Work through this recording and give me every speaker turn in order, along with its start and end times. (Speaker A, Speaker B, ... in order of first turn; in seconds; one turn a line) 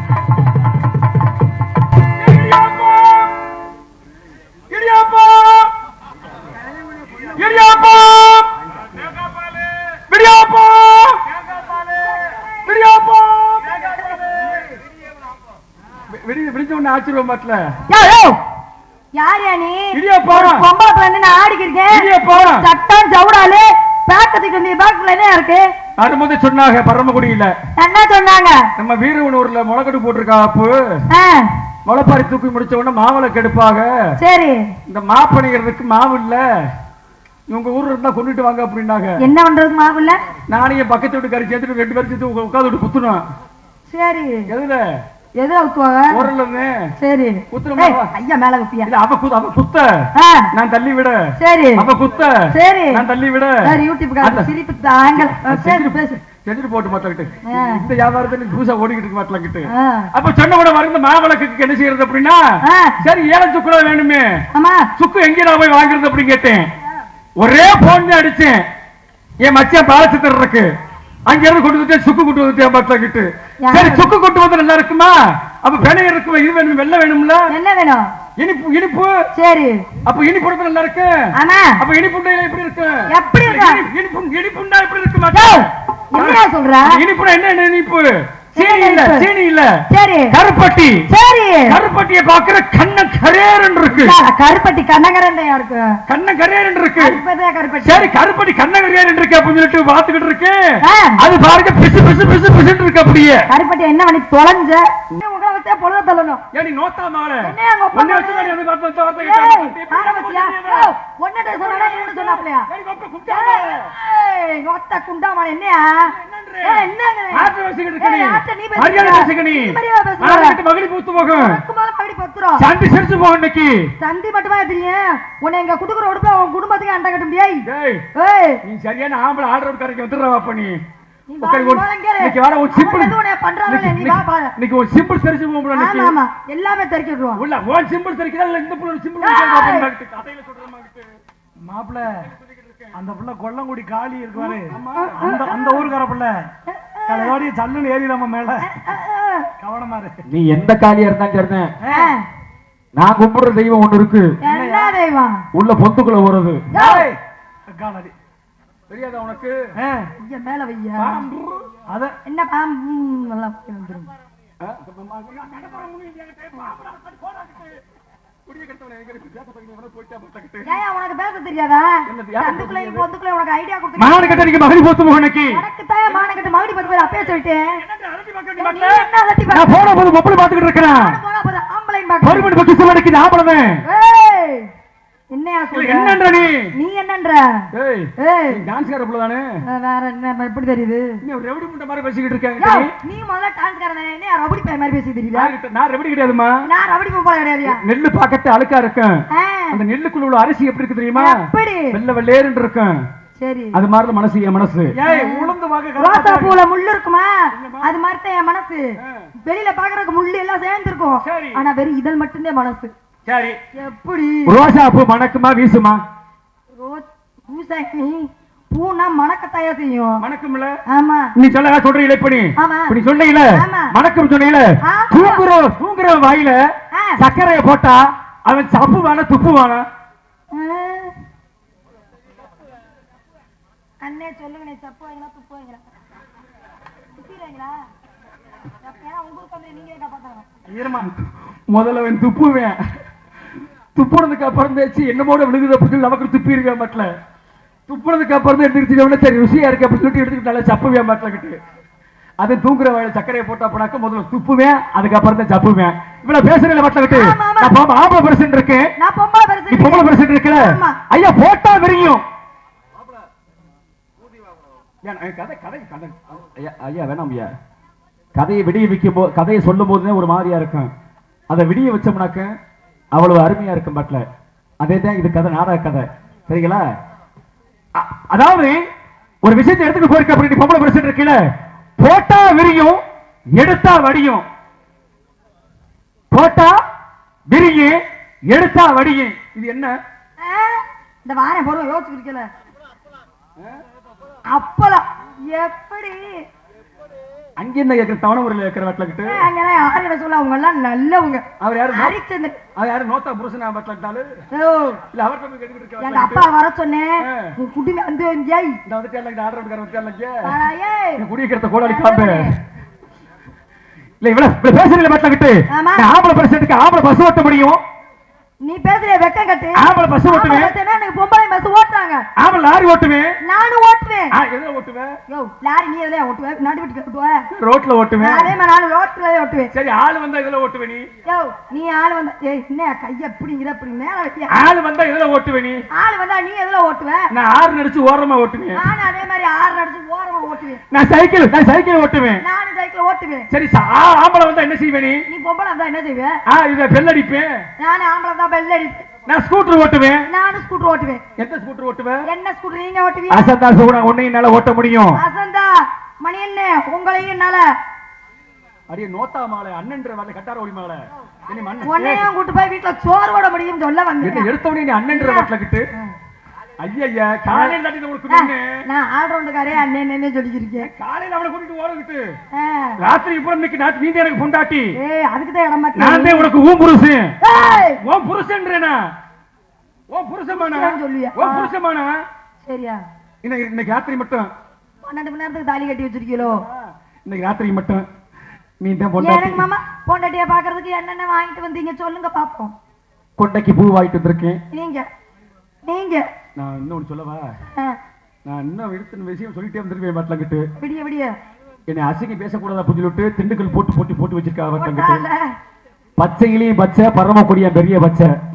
Speaker A: 2.2-3.3
Speaker A: 4.7-5.7
Speaker A: 7.3-8.5
Speaker A: 9.9-11.3
Speaker A: 12.6-14.2
Speaker A: 16.1-17.6
Speaker B: 17.9-18.4
Speaker B: 19.2-25.7
Speaker A: 19.9-20.7
Speaker A: 21.9-22.7
Speaker A: 26.0-27.5
Speaker B: 27.8-28.6
Speaker A: 28.8-30.8
Speaker B: 31.1-31.5
Speaker A: 31.9-34.0
Speaker B: 34.2-34.7
Speaker A: 34.9-36.5
Speaker A: 37.5-39.2
Speaker B: 39.2-40.2
Speaker A: 40.5-43.2
Speaker B: 43.9-44.5
Speaker A: 44.5-44.9
Speaker B: 45.4-46.3
Speaker A: 46.1-46.9
Speaker B: 47.0-48.9
Speaker A: 47.5-48.1
Speaker A: 48.9-54.5
Speaker B: 50.1-50.5
Speaker B: 51.4-51.9
Speaker B: 52.5-53.0
Speaker B: 53.6-56.2
Speaker A: 55.1-62.5
Speaker B: 57.5-57.8
Speaker B: 59.7-60.1
Speaker B: 62.6-63.0
Speaker A: 63.0-64.4
Speaker B: 64.5-64.9
Speaker A: 65.0-66.7
Speaker A: 67.4-68.7
Speaker A: 69.4-70.7
Speaker A: 71.3-77.5
Speaker B: 73.6-74.1
Speaker B: 77.5-78.1
Speaker A: 78.4-79.2
Speaker B: 79.3-79.8
Speaker A: 80.0-91.1
Speaker B: 81.3-81.8
Speaker B: 83.1-83.8
Speaker B: 85.3-87.0
Speaker B: 88.5-89.3
Speaker B: 89.9-90.4
Speaker B: 91.1-91.8
Speaker A: 91.7-94.2
Speaker B: 93.9-95.9
Speaker A: 96.1-97.2
Speaker B: 97.0-98.1
Speaker A: 97.8-103.5
Speaker B: 100.8-101.2
Speaker B: 103.5-106.4
Speaker A: 106.5-110.9
Speaker B: 107.4-108.6
Speaker B: 109.2-112.7
Speaker A: 111.5-113.9
Speaker B: 113.3-120.6
Speaker A: 116.1-121.6
Speaker B: 121.3-122.7
Speaker A: 122.6-123.9
Speaker B: 124.0-128.6
Speaker A: 127.7-128.1
Speaker A: 128.6-130.8
Speaker B: 131.3-134.6
Speaker A: 131.4-133.2
Speaker A: 133.7-136.2
Speaker B: 135.7-137.4
Speaker A: 137.4-141.1
Speaker B: 139.2-139.9
Speaker C: 141.7-142.3
Speaker C: 142.9-146.4
Speaker B: 144.4-145.9
Speaker A: 144.7-145.3
Speaker B: 146.7-147.4
Speaker C: 147.1-148.7
Speaker B: 148.6-149.5
Speaker C: 149.6-150.2
Speaker A: 150.3-151.7
Speaker C: 151.8-152.1
Speaker B: 151.9-152.2
Speaker A: 153.0-154.3
Speaker B: 154.4-155.4
Speaker C: 154.4-155.0
Speaker A: 155.5-156.7
Speaker B: 156.7-157.1
Speaker C: 156.7-157.2
Speaker C: 157.8-158.1
Speaker A: 158.9-159.6
Speaker C: 159.8-160.1
Speaker B: 160.2-161.2
Speaker A: 161.0-161.7
Speaker C: 161.9-162.2
Speaker B: 162.3-164.1
Speaker A: 164.6-167.8
Speaker A: 168.5-170.7
Speaker B: 170.6-174.5
Speaker A: 172.1-173.1
Speaker A: 174.0-177.3
Speaker B: 175.5-177.8
Speaker A: 177.8-181.2
Speaker B: 178.6-179.9
Speaker B: 180.8-182.5
Speaker A: 182.2-183.8
Speaker B: 183.9-184.7
Speaker B: 185.3-186.2
Speaker A: 185.7-186.7
Speaker B: 186.7-187.7
Speaker A: 187.7-189.5
Speaker B: 188.2-188.6
Speaker B: 189.7-191.2
Speaker A: 191.2-192.9
Speaker B: 192.6-195.5
Speaker A: 195.3-196.6
Speaker B: 196.7-197.8
Speaker A: 197.7-199.2
Speaker B: 199.3-199.8
Speaker A: 199.7-203.0
Speaker B: 201.2-202.0
Speaker B: 203.4-203.8
Speaker A: 203.7-204.9
Speaker C: 204.9-206.6
Speaker B: 205.1-208.9
Speaker A: 207.5-207.9
Speaker B: 209.4-212.9
Speaker A: 211.2-211.6
Speaker A: 213.3-213.6
Speaker B: 213.8-214.6
Speaker A: 214.5-216.0
Speaker B: 216.8-220.2
Speaker A: 220.2-220.7
Speaker B: 220.9-221.3
Speaker A: 221.4-229.9
Speaker B: 222.6-223.0
Speaker B: 223.5-223.9
Speaker B: 224.8-225.4
Speaker B: 226.9-227.2
Speaker B: 230.5-231.1
Speaker B: 234.0-235.8
Speaker B: 237.2-237.8
Speaker B: 238.8-240.5
Speaker C: 240.7-241.1
Speaker A: 241.0-242.8
Speaker A: 243.9-247.1
Speaker A: 247.9-251.6
Speaker A: 252.4-258.9
Speaker B: 257.1-257.7
Speaker B: 259.0-261.0
Speaker A: 259.7-262.2
Speaker A: 265.0-267.5
Speaker A: 268.4-270.9
Speaker A: 271.5-272.5
Speaker A: 273.1-274.2
Speaker A: 274.8-276.8
Speaker A: 277.9-278.8
Speaker A: 279.4-281.4
Speaker A: 282.0-283.0
Speaker A: 283.6-284.5
Speaker A: 286.3-286.8
Speaker A: 287.5-289.9
Speaker B: 290.4-292.5
Speaker B: 294.5-296.4
Speaker A: 297.6-299.5
Speaker B: 299.2-302.6
Speaker A: 301.6-302.2
Speaker A: 302.8-304.3
Speaker B: 304.5-305.0
Speaker A: 305.1-306.5
Speaker B: 306.0-308.8
Speaker A: 307.2-307.6
Speaker A: 308.9-310.6
Speaker B: 310.4-311.2
Speaker A: 311.2-312.5
Speaker B: 311.8-312.6
Speaker A: 314.2-317.8
Speaker B: 315.7-316.1
Speaker B: 318.6-322.3
Speaker A: 319.8-320.7
Speaker A: 322.4-323.4
Speaker B: 323.4-324.3
Speaker A: 324.3-325.2
Speaker B: 325.3-327.4
Speaker A: 327.5-328.6
Speaker B: 328.2-329.7
Speaker A: 329.7-331.1
Speaker B: 331.3-334.6
Speaker A: 334.5-335.8
Speaker B: 335.9-337.2
Speaker A: 337.3-338.8
Speaker B: 338.7-340.8
Speaker A: 340.9-342.4
Speaker B: 342.4-343.5
Speaker A: 343.5-345.2
Speaker B: 345.3-346.4
Speaker A: 346.5-347.5
Speaker B: 347.8-349.1
Speaker A: 349.3-350.3
Speaker B: 350.3-351.2
Speaker A: 351.4-352.2
Speaker B: 352.3-353.5
Speaker A: 353.3-355.2
Speaker B: 355.2-355.7
Speaker B: 356.2-357.6
Speaker A: 358.9-362.3
Speaker B: 361.8-364.5
Speaker A: 364.2-365.9
Speaker B: 365.1-365.5
Speaker A: 366.8-368.8
Speaker B: 367.5-367.8
Speaker B: 368.3-370.9
Speaker A: 370.8-372.4
Speaker B: 372.5-373.0
Speaker A: 373.0-374.9
Speaker B: 375.0-376.5
Speaker A: 375.9-377.4
Speaker B: 377.4-378.0
Speaker A: 378.0-379.1
Speaker A: 380.1-382.2
Speaker B: 380.5-381.7
Speaker B: 382.6-383.0
Speaker A: 383.4-384.5
Speaker B: 385.0-386.6
Speaker A: 386.4-388.1
Speaker A: 388.8-389.6
Speaker B: 389.2-392.7
Speaker A: 393.4-394.6
Speaker B: 394.7-395.1
Speaker B: 395.8-396.3
Speaker A: 396.6-397.5
Speaker A: 398.5-400.6
Speaker B: 400.8-401.3
Speaker A: 401.9-405.2
Speaker B: 404.8-405.5
Speaker A: 406.2-408.3